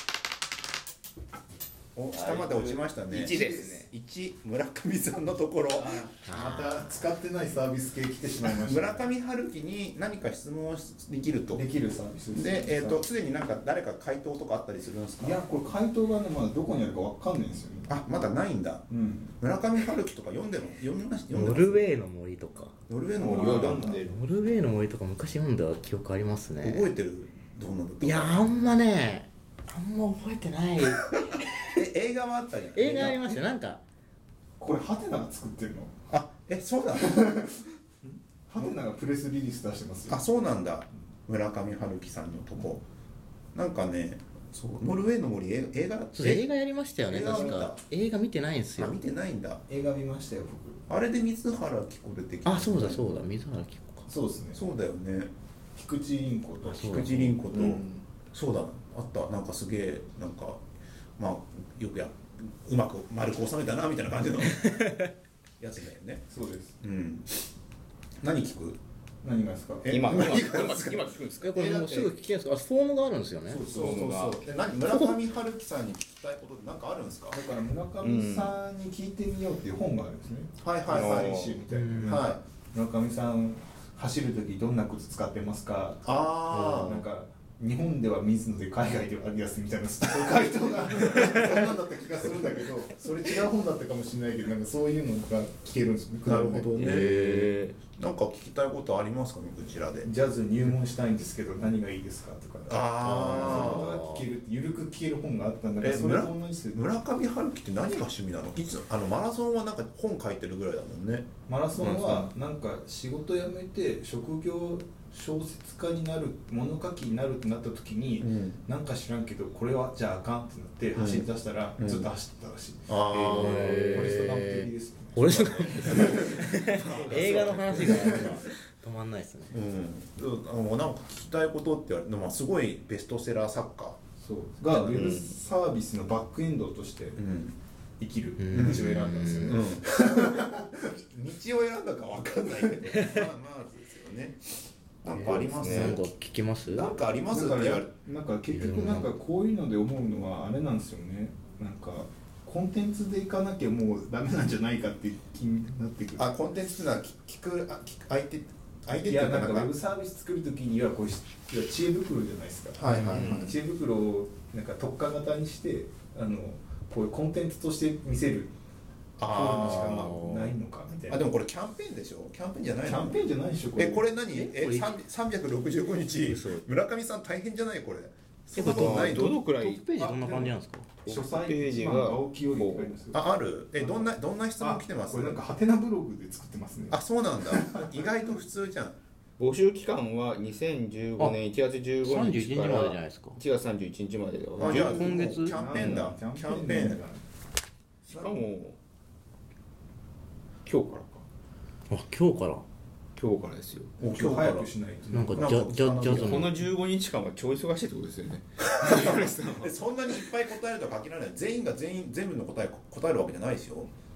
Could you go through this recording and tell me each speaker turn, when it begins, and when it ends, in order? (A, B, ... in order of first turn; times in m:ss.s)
0:02.0-0:06.1 A
0:02.1-0:03.9 B
0:03.1-0:03.8 C
0:05.7-0:09.1 C
0:06.2-0:06.8 D
0:08.5-0:11.6 A
0:11.5-0:13.1 C
0:12.3-0:15.4 A
0:15.2-0:17.9 C
0:17.9-0:18.9 A
0:18.9-0:19.4 C
0:19.4-0:21.9 A
0:21.3-0:22.8 D
0:22.9-0:24.0 A
0:23.2-0:24.1 C
0:23.2-0:24.2 B
0:24.1-0:26.9 D
0:26.6-0:28.5 A
0:28.0-0:31.4 D
0:31.7-0:33.4 A
0:32.7-0:33.8 D
0:34.6-0:35.9 C
0:36.1-0:37.3 A
0:37.0-0:40.3 C
0:40.1-0:42.8 A
0:43.6-0:46.5 A
0:46.1-0:49.0 D
0:47.1-0:47.8 A
0:47.2-0:47.7 C
0:48.8-0:49.6 A
0:49.7-0:50.8 C
0:50.9-0:53.2 A
0:52.4-0:54.1 D
0:54.1-0:54.6 C
0:54.5-0:55.3 A
0:55.8-0:56.9 C
0:56.7-0:57.4 D
0:56.7-1:00.6 A
0:57.5-0:58.0 C
1:01.2-1:05.0 A
1:05.6-1:06.2 A
1:06.3-1:06.8 C
1:06.8-1:07.3 A
1:08.2-1:08.8 A
1:09.2-1:09.9 C
1:09.8-1:12.1 A
1:09.9-1:11.8 B
1:11.4-1:13.6 D
1:13.5-1:14.0 C
1:13.7-1:17.4 A
1:13.7-1:14.5 B
1:17.3-1:36.7 C
1:18.0-1:18.5 B
1:20.6-1:21.3 A
1:20.9-1:21.6 B
1:21.7-1:22.2 D
1:22.0-1:22.4 A
1:26.0-1:27.0 A
1:26.5-1:27.0 D
1:36.2-1:37.3 A
1:36.8-1:37.8 B
1:36.8-1:37.5 D
1:38.0-1:40.1 A
1:40.0-1:46.8 C
1:42.7-1:43.9 A
1:43.0-1:44.3 D
1:45.8-1:51.3 A
1:51.5-2:08.4 C
1:51.8-1:52.2 B
1:58.2-1:58.6 A
2:01.0-2:02.1 A
2:02.9-2:03.9 A
2:03.1-2:09.6 D
2:05.5-2:08.4 A
2:06.9-2:07.8 B
2:09.5-2:14.0 A
2:14.2-2:17.2 C
2:14.7-2:15.3 B
2:17.2-2:17.6 A
2:18.0-2:20.9 C
2:18.4-2:19.6 D
2:18.5-2:18.8 A
2:19.4-2:26.1 A
2:22.9-2:23.3 D
2:25.1-2:26.0 B
2:25.6-2:26.9 D
2:26.7-2:27.9 A
2:27.3-2:36.3 C
2:28.5-2:29.1 D
2:36.2-2:39.7 A
2:39.0-2:48.5 C
2:42.8-2:43.6 A
2:43.1-2:43.5 B
2:49.2-2:50.1 A
2:49.2-2:51.2 C
2:49.4-2:50.6 D
2:51.1-2:59.4 A
2:52.8-2:54.2 C
2:54.3-2:55.0 D
2:56.2-2:56.7 D
2:58.6-3:01.0 D
2:58.6-3:00.1 B
3:00.0-3:00.5 C
3:01.0-3:03.0 B
3:01.0-3:08.1 C
3:03.1-3:05.4 A
3:06.9-3:09.0 A
3:09.4-3:15.0 B
3:12.0-3:13.4 D
3:14.6-3:15.6 D
3:14.6-3:17.0 A
3:14.7-3:17.2 C
3:15.6-3:16.1 B
3:18.1-3:18.8 B
3:20.6-3:21.2 B
3:21.9-3:22.6 D
3:23.2-3:23.9 B
3:24.0-3:24.7 A
3:24.0-3:25.6 C
3:25.1-3:26.6 D
3:25.3-3:26.5 A
3:26.1-3:29.7 B
3:28.8-3:33.9 A